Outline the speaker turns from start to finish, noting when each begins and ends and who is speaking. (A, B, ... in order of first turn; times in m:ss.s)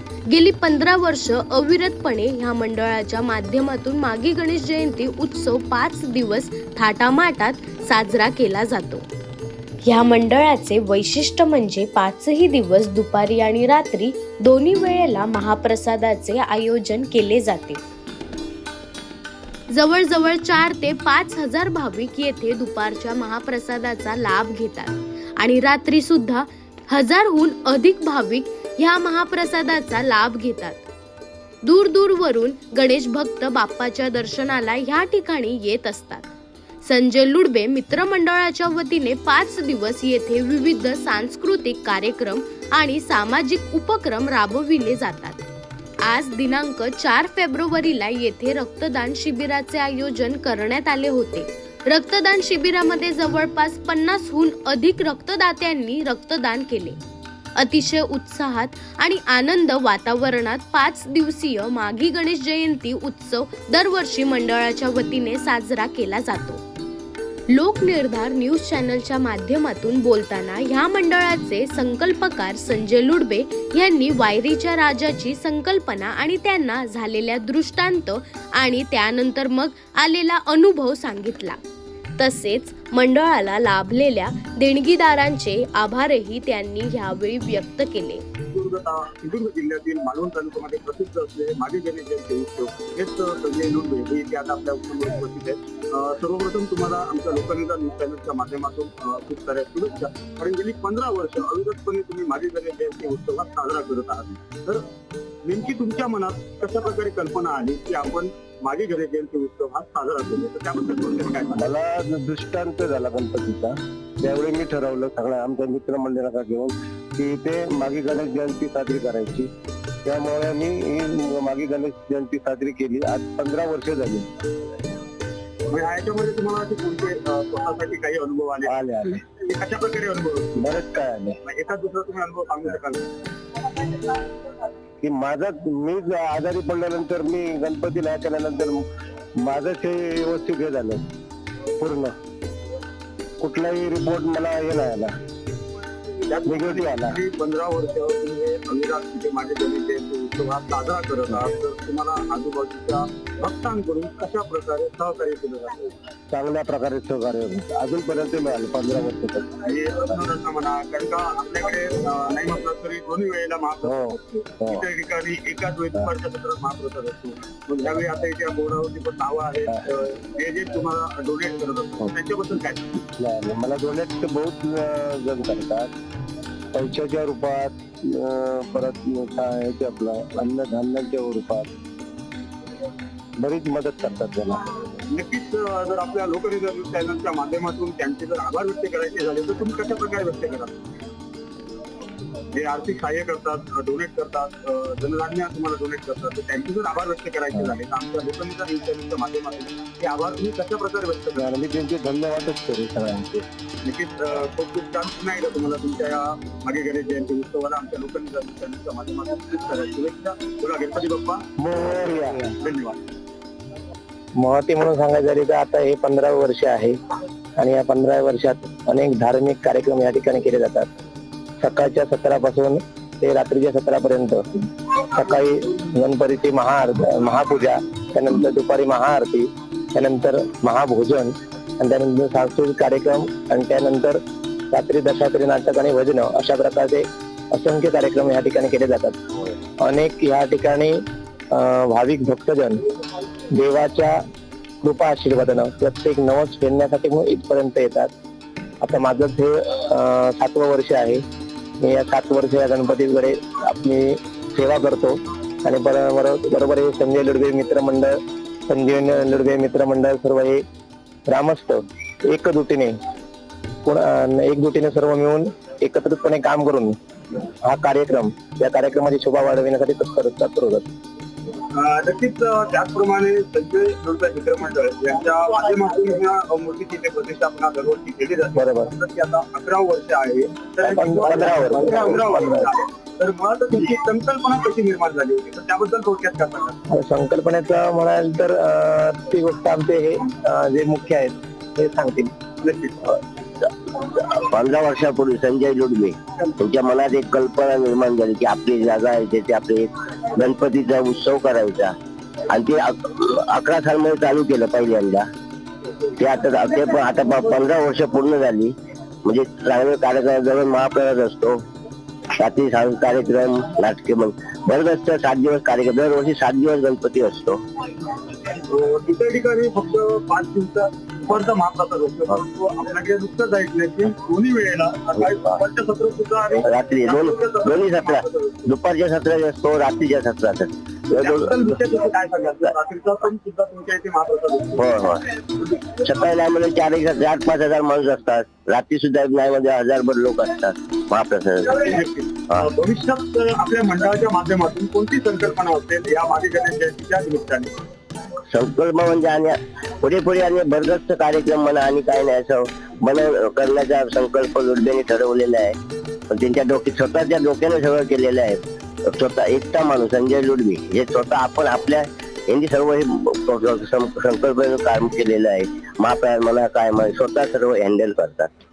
0:00.3-0:09.0 A
0:09.8-0:17.8 A
0:19.7-0:30.8 A
0:31.6-0:36.2 A
0:36.8-0:45.4 A
0:46.0-0:57.0 A
0:57.6-1:06.6 A
1:07.5-1:21.6 A
1:22.2-1:28.2 A
1:28.5-1:44.8 B
1:45.4-1:51.7 B
1:51.6-1:59.5 C
2:00.0-2:04.3 C
2:05.7-2:10.6 B
2:08.7-2:09.2 C
2:10.6-2:11.4 C
2:11.4-2:13.1 B
2:15.0-2:18.8 C
2:19.4-2:21.0 C
2:21.8-2:22.1 C
2:23.4-2:25.1 C
2:26.2-2:35.9 B
2:26.4-2:27.2 C
2:36.3-2:40.1 C
2:39.6-2:53.0 B
2:43.8-2:44.8 C
2:53.2-2:55.9 C
2:56.7-3:01.7 C
3:03.4-3:04.6 C
3:05.1-3:10.8 B
3:12.5-3:21.5 B
3:21.4-3:23.4 C
3:23.8-3:31.4 B
3:31.6-3:32.5 C
3:32.6-3:33.0 B
3:34.4-3:37.0 D
3:37.6-3:40.9 D
3:41.6-3:44.4 D
3:45.1-3:54.2 D
3:54.7-3:59.2 D
3:59.8-4:01.0 D
4:01.5-4:02.8 D
4:03.5-4:04.2 D
4:04.8-4:08.1 D
4:08.8-4:11.2 D
4:11.8-4:18.2 D
4:18.7-4:20.6 D
4:21.3-4:23.0 D
4:23.8-4:27.0 D
4:27.6-4:30.8 D
4:31.7-4:46.8 B
4:38.5-4:38.9 D
4:40.8-4:42.7 D
4:46.9-4:52.3 D
4:52.6-4:53.1 B
4:53.9-5:01.9 E
5:02.5-5:05.3 E
5:06.2-5:11.6 E
5:12.4-5:17.6 E
5:18.5-5:28.6 B
5:26.6-5:31.7 E
5:31.2-5:34.9 B
5:34.8-5:35.2 E
5:35.6-5:35.9 B
5:36.0-5:42.0 E
5:41.8-5:47.7 B
5:48.5-5:55.8 E
5:56.3-6:08.5 E